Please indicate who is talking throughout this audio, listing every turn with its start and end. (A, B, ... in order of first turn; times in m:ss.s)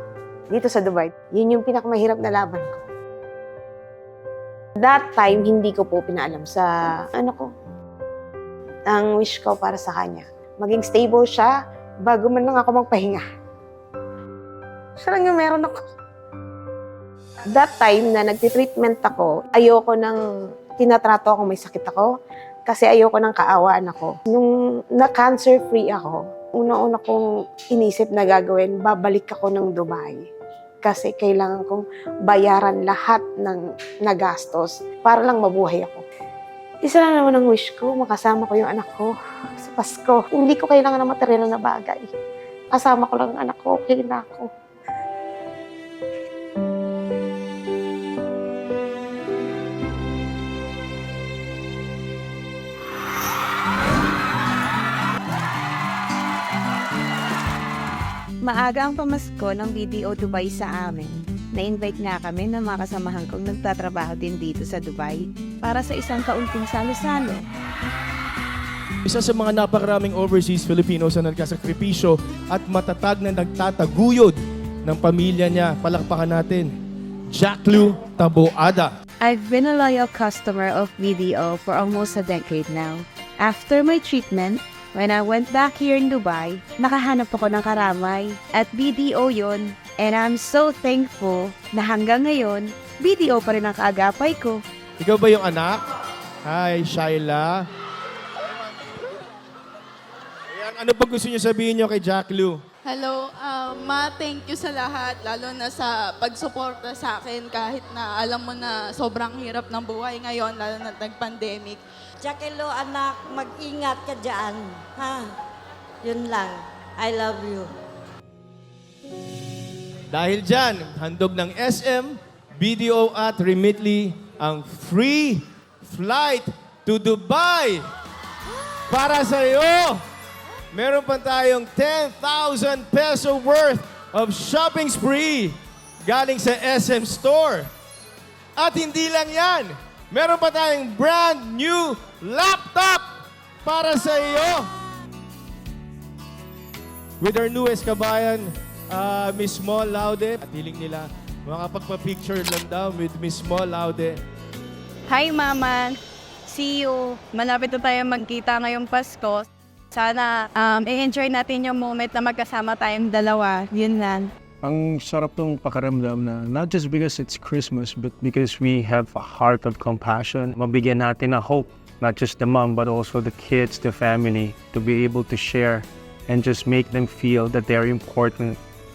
0:00.5-0:02.8 A
0:04.8-0:07.5 A
0:08.9-0:11.5 A
0:12.1-0:13.2 A
0:15.0-0:15.8 A
0:17.5-0:20.2 A
0:20.8-0:22.1 A
0:22.7-0:30.3 A
0:30.8-0:36.0 A
0:36.8-0:42.1 A
0:42.7-0:44.5 A
0:58.4-1:07.4 B
1:09.0-1:16.7 C
1:17.3-1:18.9 C
1:19.2-1:34.6 B
1:35.0-1:35.8 C
1:36.4-1:37.7 C
1:40.5-1:42.6 C
1:42.8-1:51.8 D
1:52.2-1:55.3 E
1:56.0-1:57.7 E
2:00.1-2:07.8 C
2:08.9-2:10.0 C
2:10.7-2:17.7 C
2:18.6-2:23.1 C
2:23.6-2:24.7 C
2:27.2-2:34.2 C
2:35.1-2:44.3 F
2:44.6-2:58.6 G